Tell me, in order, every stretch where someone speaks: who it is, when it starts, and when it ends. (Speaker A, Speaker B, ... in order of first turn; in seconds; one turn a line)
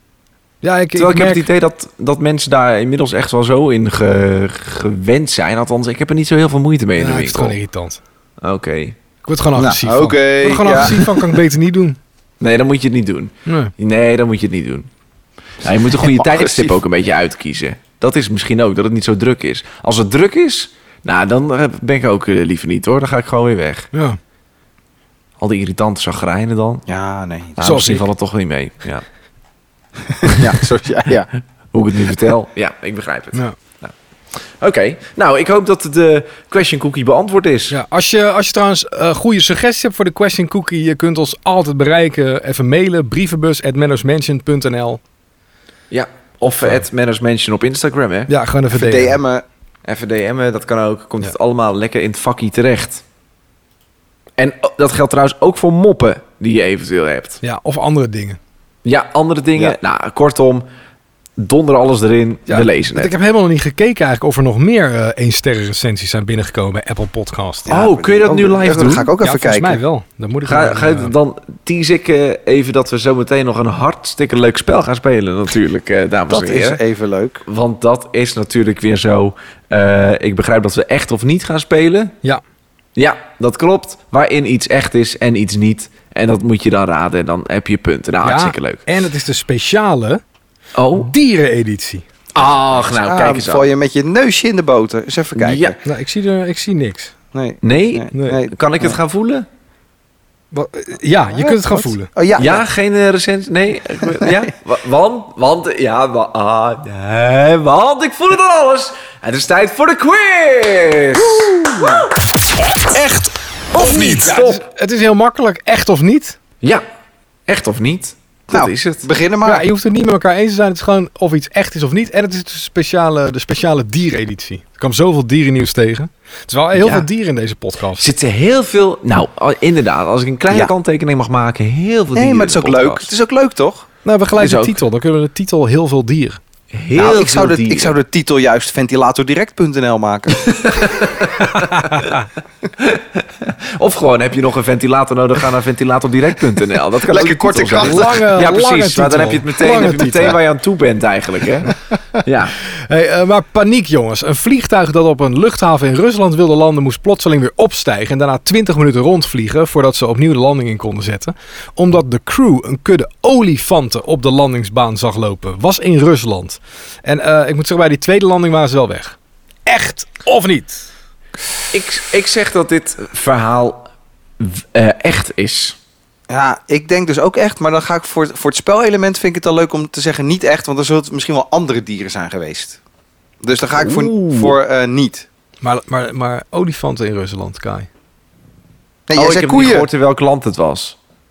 Speaker A: 0.6-1.5
Speaker B: 1.0-7.5
Speaker A: 7.0-8.0
Speaker B: 8.4-9.0
Speaker A: 9.2-12.0
Speaker C: 9.6-11.2
Speaker B: 12.4-14.9
Speaker A: 13.5-13.7
Speaker B: 15.6-23.9
Speaker C: 16.0-16.8
Speaker A: 23.9-24.2
Speaker B: 25.4-26.9
Speaker C: 26.9-27.6
Speaker B: 27.6-29.0
Speaker A: 27.6-28.1
Speaker C: 30.2-31.3
Speaker B: 31.7-37.8
Speaker A: 37.7-45.0
Speaker B: 45.9-48.3
Speaker A: 48.3-49.2
Speaker C: 48.7-49.5
Speaker B: 49.9-53.0
Speaker B: 54.4-57.4
Speaker A: 57.4-58.4
Speaker B: 58.9-60.7
Speaker B: 61.4-63.1
Speaker A: 62.5-67.7
Speaker C: 67.7-69.8
Speaker B: 67.7-69.1
Speaker A: 69.2-71.1
Speaker B: 70.5-76.8
Speaker C: 76.3-77.4
Speaker B: 77.5-82.1
Speaker B: 83.0-88.8
Speaker A: 88.2-90.2
Speaker B: 90.8-91.1
Speaker A: 90.9-92.0
Speaker B: 92.4-93.7
Speaker C: 93.0-95.8
Speaker B: 95.4-95.8
Speaker A: 95.8-97.1
Speaker C: 97.3-99.0
Speaker B: 97.6-99.5
Speaker A: 98.1-98.4
Speaker A: 100.5-102.1
Speaker C: 101.3-102.7
Speaker B: 102.4-112.1
Speaker A: 112.9-116.4
Speaker B: 113.7-114.6
Speaker B: 117.5-119.1
Speaker C: 118.5-119.7
Speaker A: 119.4-128.1
Speaker B: 126.8-127.1
Speaker B: 128.0-133.1
Speaker C: 132.1-133.9
Speaker A: 134.1-136.4
Speaker B: 134.4-134.8
Speaker B: 136.7-137.9
Speaker C: 137.0-140.5
Speaker B: 140.4-142.1
Speaker B: 142.8-151.7
Speaker C: 147.1-148.3
Speaker A: 147.8-150.4
Speaker B: 152.2-152.6
Speaker A: 152.9-169.2
Speaker A: 169.7-170.9
Speaker B: 171.7-173.9
Speaker B: 174.4-175.8
Speaker C: 176.3-182.8
Speaker C: 183.4-185.3
Speaker B: 183.8-184.6
Speaker A: 185.6-187.9
Speaker C: 189.1-189.9
Speaker B: 189.2-190.9